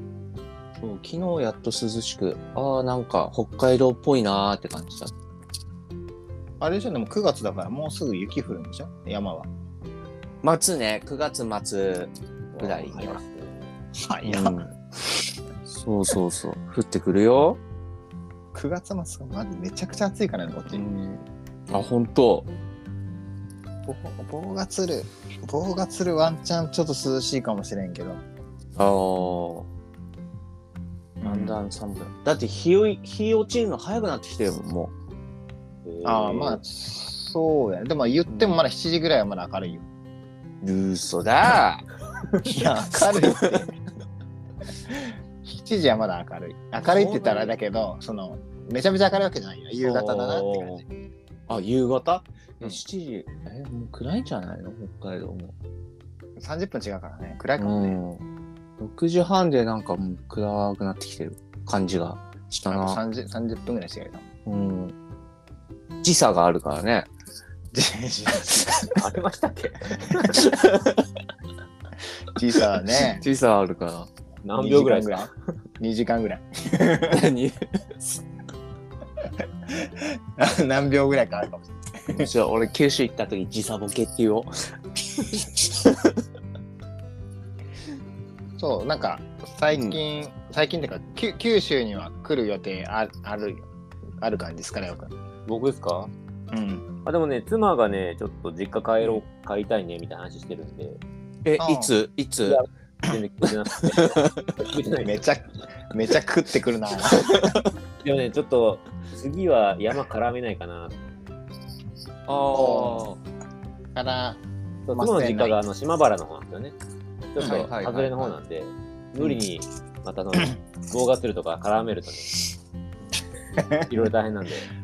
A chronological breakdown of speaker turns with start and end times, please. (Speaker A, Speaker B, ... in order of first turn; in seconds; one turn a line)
Speaker A: 0.8-5.1
Speaker B: 6.6-9.5
Speaker A: 10.4-13.2
Speaker C: 12.6-13.7
Speaker B: 14.0-14.7
Speaker A: 14.2-14.7
Speaker A: 15.7-17.6
Speaker B: 18.5-20.8
Speaker A: 20.7-22.5
Speaker B: 23.9-28.2
Speaker A: 28.8-29.7
Speaker B: 31.2-31.6
Speaker A: 31.2-34.9
Speaker C: 35.9-36.6
Speaker B: 36.0-39.9
Speaker A: 38.3-38.6
Speaker A: 40.6-41.9
Speaker B: 42.4-43.8
Speaker A: 43.2-43.6
Speaker B: 44.9-50.8
Speaker A: 46.8-47.5
Speaker A: 49.8-50.8
Speaker A: 51.5-55.5
Speaker B: 56.4-58.0
Speaker A: 57.6-58.2
Speaker A: 58.8-63.0
Speaker B: 62.7-64.3
Speaker A: 64.5-64.9
Speaker A: 66.0-67.1
Speaker B: 67.7-69.0
Speaker C: 69.0-70.5
Speaker A: 70.4-70.8
Speaker B: 72.3-73.2
Speaker A: 73.1-74.1
Speaker C: 74.4-75.3
Speaker B: 74.6-77.3
Speaker A: 77.1-77.9
Speaker B: 79.7-82.3
Speaker A: 82.1-84.5
Speaker A: 85.2-86.1
Speaker B: 88.6-93.7
Speaker A: 89.7-90.0
Speaker B: 94.2-95.1
Speaker C: 95.5-96.1
Speaker B: 96.5-96.9
Speaker C: 97.0-101.0
Speaker A: 101.5-102.6
Speaker B: 101.6-101.9
Speaker C: 102.5-105.2
Speaker A: 103.8-104.5
Speaker B: 105.0-107.6
Speaker A: 107.3-107.6
Speaker C: 108.0-111.0
Speaker A: 112.3-113.2
Speaker B: 112.5-113.1
Speaker B: 114.0-115.6
Speaker C: 114.9-116.8
Speaker C: 117.3-122.4
Speaker B: 117.4-117.7
Speaker A: 117.4-118.3
Speaker B: 123.6-123.9
Speaker C: 123.8-124.7